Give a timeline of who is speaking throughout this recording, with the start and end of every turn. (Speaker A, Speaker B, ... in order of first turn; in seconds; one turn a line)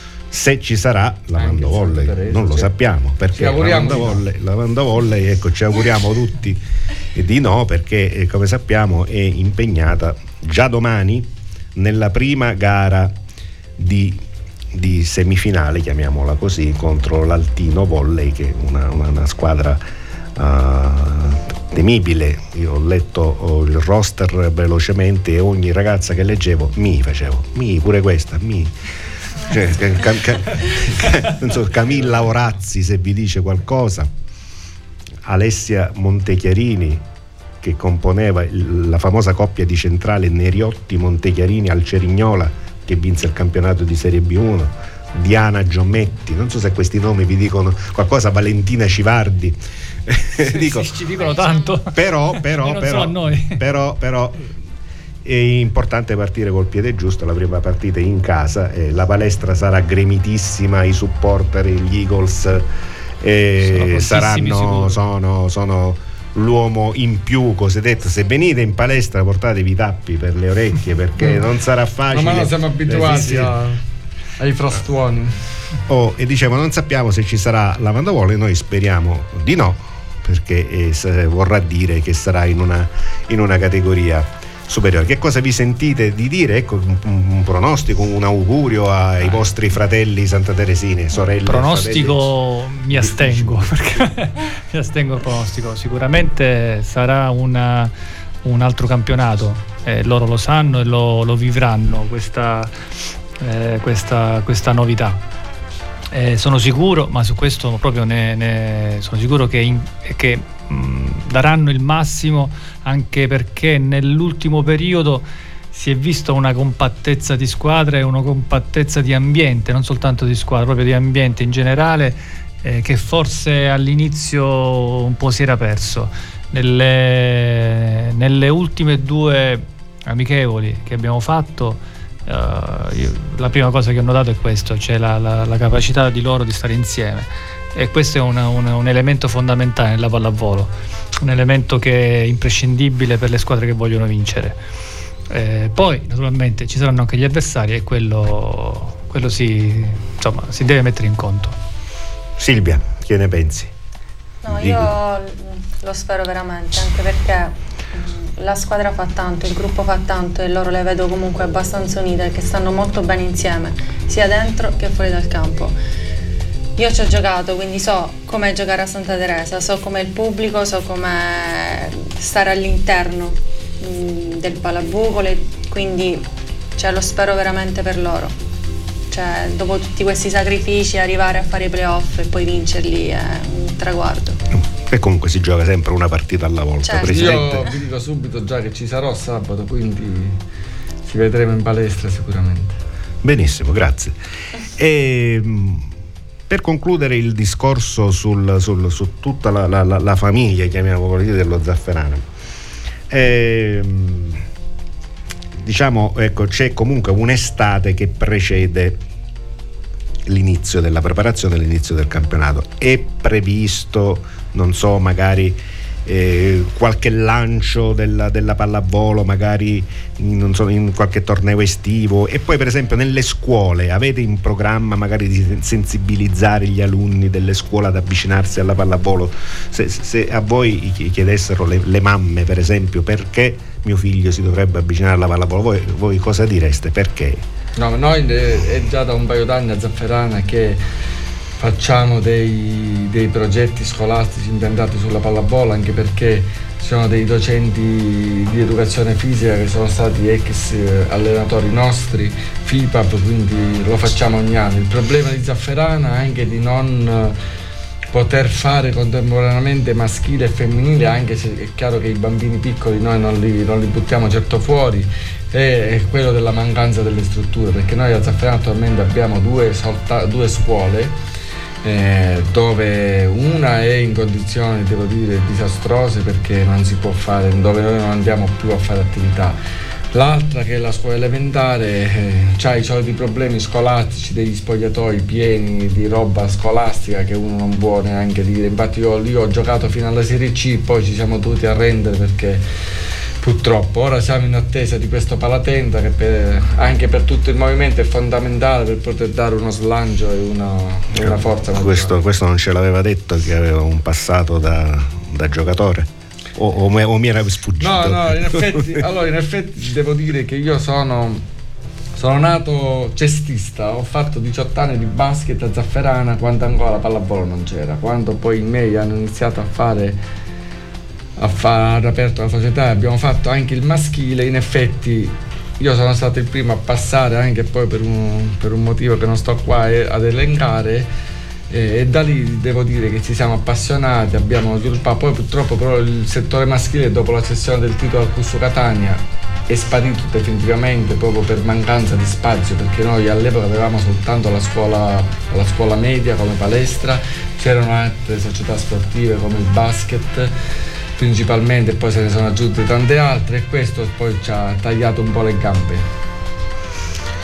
Speaker A: 0.3-6.6
Speaker B: 1.4-2.7
Speaker B: 3.3-4.2
Speaker A: 7.1-13.1
Speaker A: 13.8-19.8
Speaker A: 20.4-28.7
Speaker A: 29.4-34.1
Speaker A: 35.2-37.0
Speaker A: 37.6-50.9
Speaker C: 50.4-53.6
Speaker D: 51.2-51.8
Speaker A: 52.0-54.5
Speaker A: 55.2-62.7
Speaker A: 63.2-73.5
Speaker C: 63.6-65.0
Speaker B: 72.1-73.8
Speaker B: 74.4-75.4
Speaker A: 75.9-92.3
Speaker C: 91.4-97.9
Speaker A: 92.9-94.0
Speaker C: 98.5-102.7
Speaker C: 103.4-105.2
Speaker C: 106.1-140.7
Speaker C: 141.2-144.6
Speaker C: 145.3-151.6
Speaker A: 152.4-153.7
Speaker D: 154.4-165.7
Speaker A: 154.5-154.9
Speaker D: 166.8-178.3
Speaker D: 179.1-184.4
Speaker A: 184.5-187.7
Speaker D: 186.8-187.7
Speaker B: 187.1-190.4
Speaker B: 191.1-192.8
Speaker A: 193.2-194.2
Speaker A: 194.8-195.9
Speaker A: 196.5-202.2
Speaker A: 203.1-204.4
Speaker A: 205.6-209.0
Speaker A: 210.3-237.4
Speaker B: 237.8-240.8
Speaker B: 241.6-257.4
Speaker B: 258.1-271.1
Speaker B: 271.8-279.6
Speaker B: 280.1-292.6
Speaker B: 293.4-302.2
Speaker A: 301.1-309.0
Speaker B: 307.8-311.4
Speaker B: 312.1-320.2
Speaker B: 321.4-331.1
Speaker B: 331.7-350.5
Speaker B: 351.2-356.1